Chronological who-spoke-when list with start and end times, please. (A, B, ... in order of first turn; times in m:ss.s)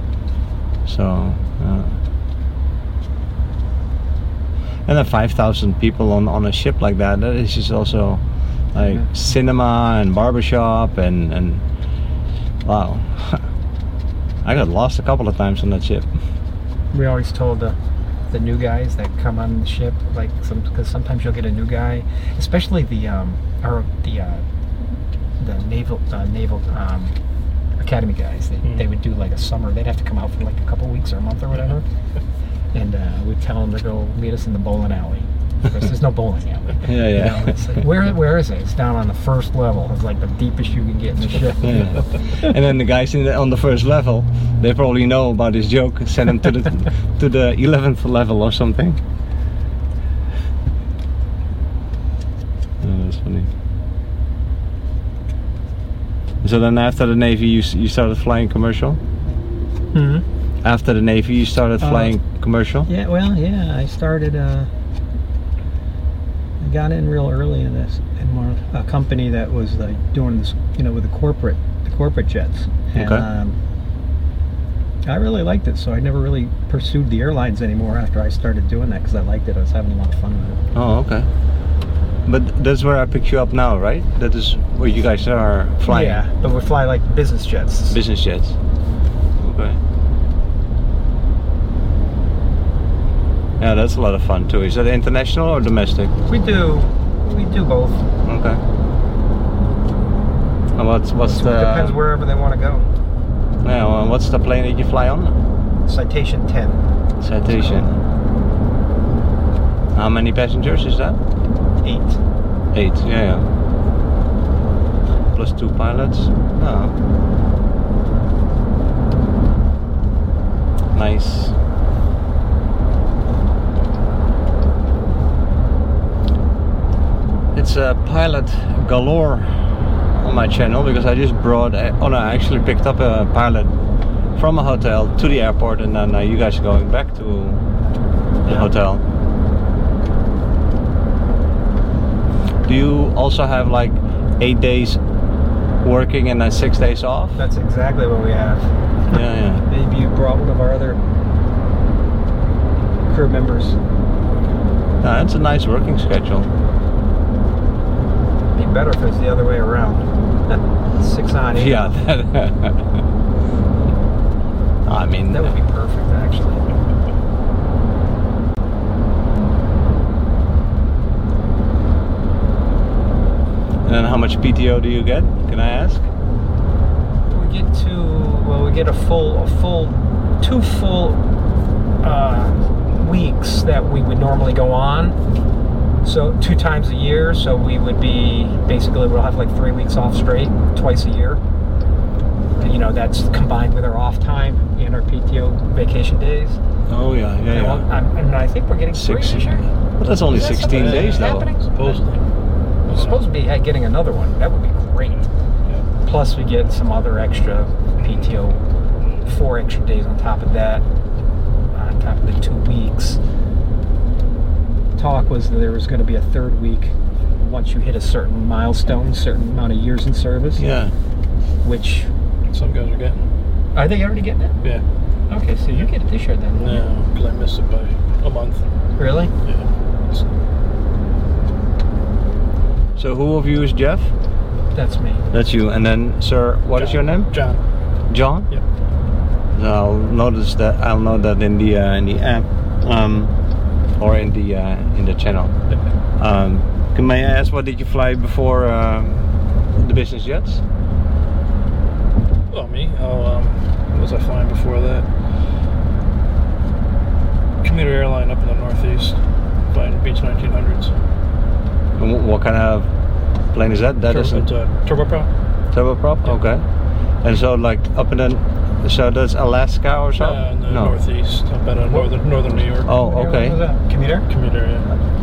0:00.8-0:02.0 A
0:04.9-0:08.2 A
0:08.7-0:11.6 A
0:08.8-0:09.0 B
0:12.6-0:13.4 A
0:14.4-0:16.0 A
0:16.9-0:17.8 B
0:18.3-0:24.4 B
0:25.4-0:27.1 B
0:27.8-0:31.8 B
0:32.7-0:42.0 B
0:36.8-0:37.6 A
0:41.6-0:49.0 A
0:52.8-0:53.5 A
0:56.4-0:59.0 A
0:59.9-1:00.2 B
1:00.6-1:02.9 A
1:01.8-1:02.2 B
1:02.8-1:04.7 B
1:06.6-1:13.6 B
1:12.9-1:13.2 A
1:15.0-1:20.6 B
1:20.7-1:21.3 A
1:22.2-1:26.2 A
1:25.9-1:28.0 B
1:27.9-1:28.6 A
1:29.4-1:29.8 A
1:33.6-1:36.1 A
1:36.3-1:38.0 B
1:38.2-1:38.6 A
1:40.8-1:42.0 A
1:41.2-1:42.9 B
1:43.6-1:45.3 A
1:45.8-1:46.8 B
1:47.2-1:48.0 A
1:47.4-1:47.9 B
1:49.9-1:51.2 A
1:51.8-1:52.2 B
1:52.7-1:53.5 A
1:55.3-1:56.9 A
2:00.9-2:01.5 A
2:07.5-2:09.5 A
2:10.2-2:13.7 A
2:14.4-2:17.6 A
2:18.4-2:18.7 B
2:18.4-2:19.0 A
2:22.6-2:25.0 A
2:25.8-2:27.4 A
2:27.4-2:28.7 B
2:29.1-2:29.6 A
2:29.7-2:31.0 B
2:33.1-2:33.8 B
2:35.0-2:36.5 A
2:38.5-2:42.0 B
2:41.5-2:43.0 A
2:44.8-2:45.5 A
2:45.3-2:46.6 B
2:53.8-2:56.1 A
2:57.3-3:01.2 B
3:02.0-3:05.2 B
3:06.0-3:11.4 B
3:12.6-3:16.6 B
3:16.9-3:17.9 A
3:17.5-3:19.6 B
3:18.9-3:21.5 A
3:20.2-3:22.0 B
3:20.5-3:22.2 C
3:22.9-3:23.2 C
3:22.9-3:25.2 B
3:26.0-3:28.6 B
3:29.2-3:30.8 B
3:31.7-3:33.2 B
3:35.0-3:40.6 B
3:40.6-3:40.9 A
3:41.6-3:42.1 B
3:42.5-3:43.2 C
3:43.7-3:44.5 B
3:45.3-3:46.9 B
3:46.6-3:48.6 C
3:49.0-3:49.3 B
3:49.4-3:50.2 C
3:53.0-3:54.1 A
3:54.7-3:55.2 B
3:55.3-3:57.3 A
3:56.7-3:57.6 C
3:58.1-3:58.5 A
3:59.5-4:03.3 A
4:04.0-4:05.5 A
4:06.2-4:10.6 A
4:12.5-4:15.1 C
4:17.6-4:19.2 C
4:19.7-4:20.9 C
4:22.0-4:22.9 A
4:23.5-4:24.5 A
4:24.0-4:25.3 C
4:25.7-4:26.6 A
4:27.2-4:31.0 A
4:30.2-4:32.9 C
4:31.9-4:32.1 B
4:32.8-4:33.6 A
4:32.9-4:34.3 B
4:34.3-4:34.9 C